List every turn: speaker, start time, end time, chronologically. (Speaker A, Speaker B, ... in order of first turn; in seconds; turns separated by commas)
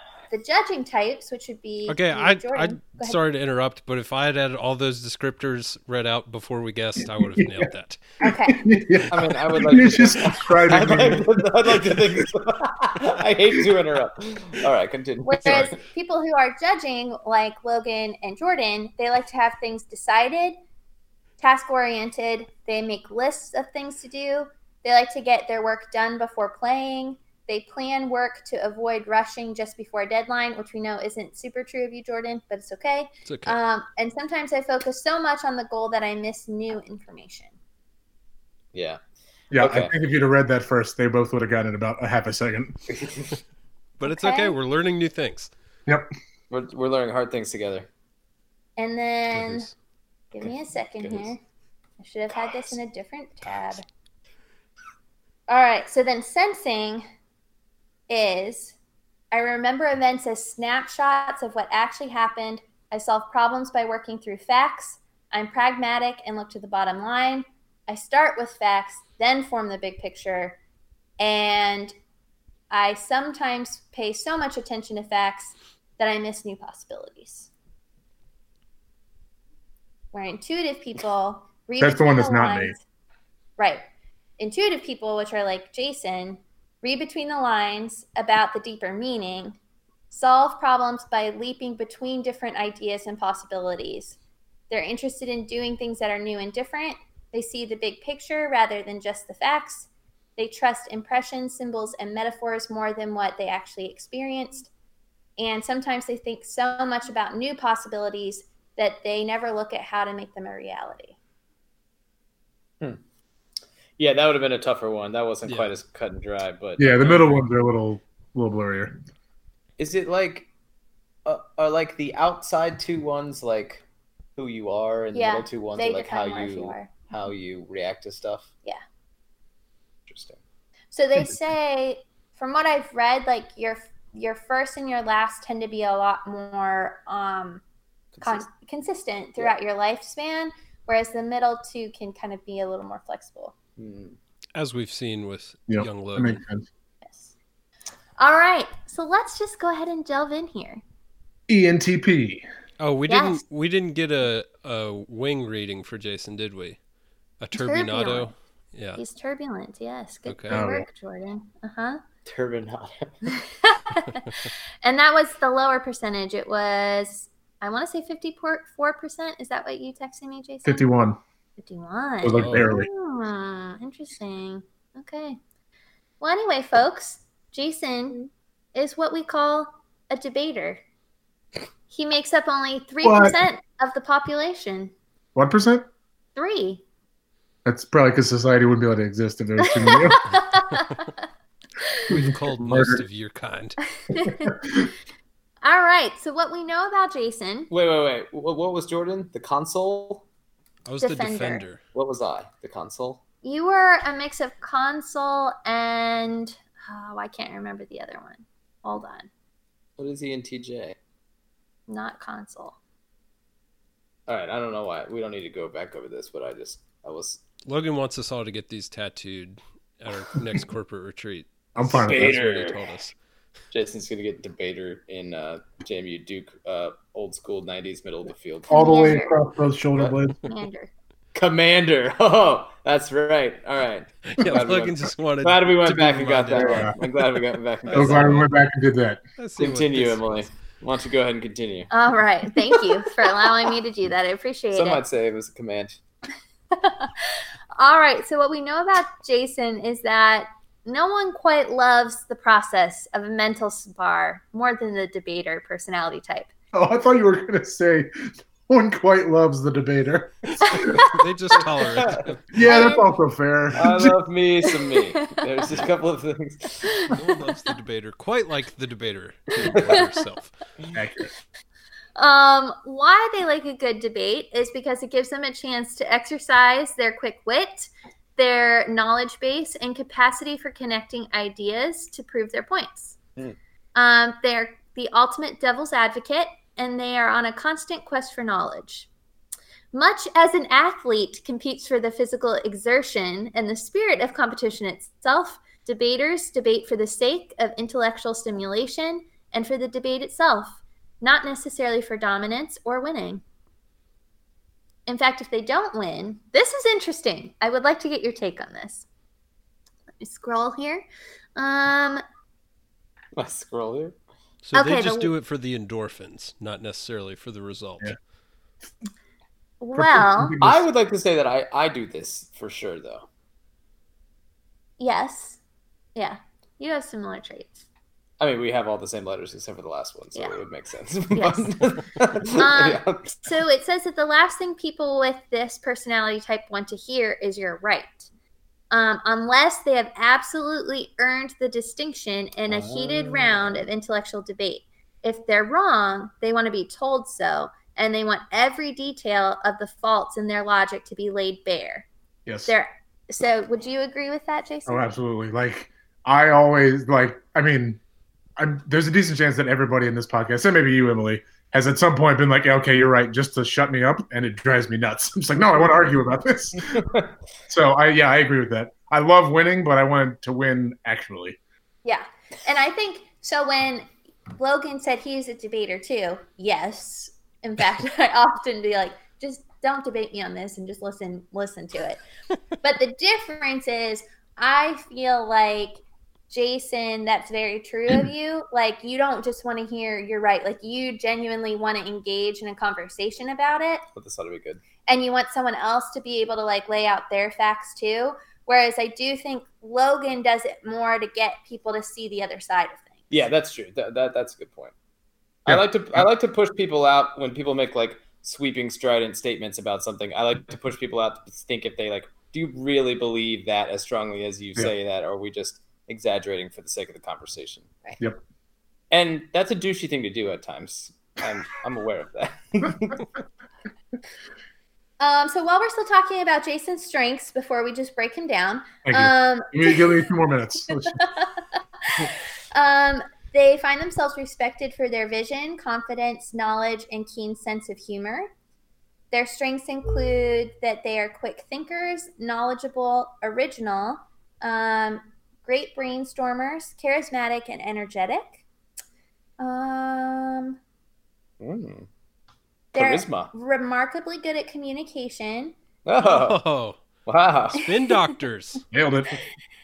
Speaker A: 0.3-3.2, Speaker B: 1.9-8.0, Speaker C: 7.4-7.7, Speaker A: 8.2-8.7, Speaker C: 8.2-12.3, Speaker D: 9.1-15.8, Speaker A: 15.2-20.6, Speaker A: 21.4-37.5, Speaker B: 33.3-33.6, Speaker D: 38.7-39.0, Speaker C: 39.5-42.8, Speaker D: 39.6-39.9, Speaker D: 42.9-43.3, Speaker B: 44.0-45.5, Speaker A: 44.1-44.6, Speaker D: 46.5-47.9, Speaker A: 48.8-49.7, Speaker B: 49.3-49.7, Speaker A: 50.3-51.4, Speaker D: 50.4-51.3, Speaker A: 52.0-53.8, Speaker A: 55.5-57.0, Speaker A: 58.1-58.8, Speaker A: 59.3-70.6, Speaker A: 71.2-71.9, Speaker A: 72.7-77.5, Speaker A: 80.1-82.8, Speaker C: 81.8-82.8, Speaker A: 84.4-89.6, Speaker A: 90.1-94.2, Speaker A: 94.7-104.7, Speaker A: 105.4-111.2, Speaker D: 114.0-117.4, Speaker B: 115.5-115.7, Speaker C: 116.8-119.0, Speaker D: 119.8-120.5, Speaker D: 121.3-123.8, Speaker D: 124.4-128.5, Speaker A: 125.1-126.9, Speaker D: 130.1-130.4, Speaker A: 130.9-137.6, Speaker D: 138.2-138.5, Speaker A: 138.2-143.6, Speaker D: 143.8-144.2, Speaker B: 144.6-146.4, Speaker C: 145.7-146.7, Speaker A: 147.0-147.3, Speaker A: 148.2-150.8, Speaker C: 151.5-152.4, Speaker B: 152.8-156.8, Speaker A: 153.1-153.4, Speaker B: 157.4-159.0, Speaker A: 157.6-158.3, Speaker A: 159.0-162.0, Speaker B: 160.3-160.7, Speaker C: 160.5-160.9, Speaker D: 162.2-163.1, Speaker A: 163.3-170.9, Speaker C: 170.7-171.2, Speaker A: 171.6-175.4, Speaker C: 172.2-172.9, Speaker B: 172.4-172.7, Speaker A: 176.2-180.8, Speaker A: 181.9-184.9, Speaker C: 183.0-183.4, Speaker C: 185.3-185.9, Speaker A: 186.4-186.8, Speaker C: 187.7-190.3, Speaker A: 189.7-191.1, Speaker B: 192.1-193.8, Speaker C: 192.1-193.0, Speaker A: 194.1-194.6, Speaker C: 194.4-194.9, Speaker A: 195.6-197.7, Speaker D: 197.7-200.2, Speaker B: 200.9-201.8, Speaker A: 201.0-201.6, Speaker D: 201.9-203.2, Speaker A: 203.4-209.3, Speaker D: 210.0-211.0, Speaker A: 211.9-212.8, Speaker D: 214.3-217.4, Speaker B: 217.7-223.2, Speaker C: 221.8-222.4, Speaker D: 221.8-222.8, Speaker D: 223.7-229.1, Speaker A: 228.7-229.4, Speaker C: 228.7-230.4, Speaker A: 230.5-230.9, Speaker D: 231.3-238.4, Speaker B: 234.3-237.1, Speaker C: 236.5-236.9, Speaker B: 237.9-238.5, Speaker C: 237.9-239.2, Speaker B: 239.4-240.5, Speaker D: 239.6-241.9, Speaker A: 241.9-245.0, Speaker D: 244.7-246.0, Speaker A: 246.7-256.5, Speaker C: 256.7-261.1, Speaker A: 260.7-261.0, Speaker B: 261.0-262.5, Speaker D: 261.9-262.2, Speaker C: 262.5-264.2, Speaker A: 262.6-263.1, Speaker D: 263.8-266.9, Speaker B: 267.1-270.5, Speaker A: 269.6-270.2, Speaker C: 270.9-271.3, Speaker A: 272.2-283.2, Speaker A: 283.9-289.1, Speaker A: 289.9-303.4, Speaker A: 305.1-309.1, Speaker A: 310.2-312.2, Speaker D: 313.4-314.2, Speaker B: 314.6-318.1, Speaker A: 314.7-315.3, Speaker A: 319.8-320.6, Speaker C: 319.9-320.8, Speaker D: 320.6-323.3, Speaker A: 325.0-325.6, Speaker A: 326.1-327.8, Speaker D: 328.4-333.4, Speaker A: 331.3-331.7, Speaker A: 332.5-338.3, Speaker A: 338.9-352.1, Speaker D: 342.7-343.9, Speaker C: 352.5-352.7, Speaker A: 352.7-355.1, Speaker C: 354.9-358.0, Speaker C: 358.6-367.1, Speaker D: 366.9-367.3, Speaker C: 367.7-371.6, Speaker A: 372.1-382.2, Speaker A: 382.8-394.0, Speaker D: 394.2-394.8, Speaker A: 395.1-403.4, Speaker D: 403.3-404.9, Speaker D: 405.7-417.9, Speaker C: 405.7-406.2, Speaker D: 419.1-423.2, Speaker A: 425.2-430.2, Speaker C: 429.1-431.2, Speaker A: 431.1-431.5, Speaker A: 432.0-438.5, Speaker A: 439.3-448.6, Speaker A: 449.6-450.8, Speaker D: 451.6-452.1, Speaker D: 452.9-453.5, Speaker A: 452.9-455.7, Speaker D: 456.1-456.6, Speaker B: 456.3-457.0, Speaker D: 457.3-457.9, Speaker B: 457.7-458.8, Speaker C: 458.9-459.4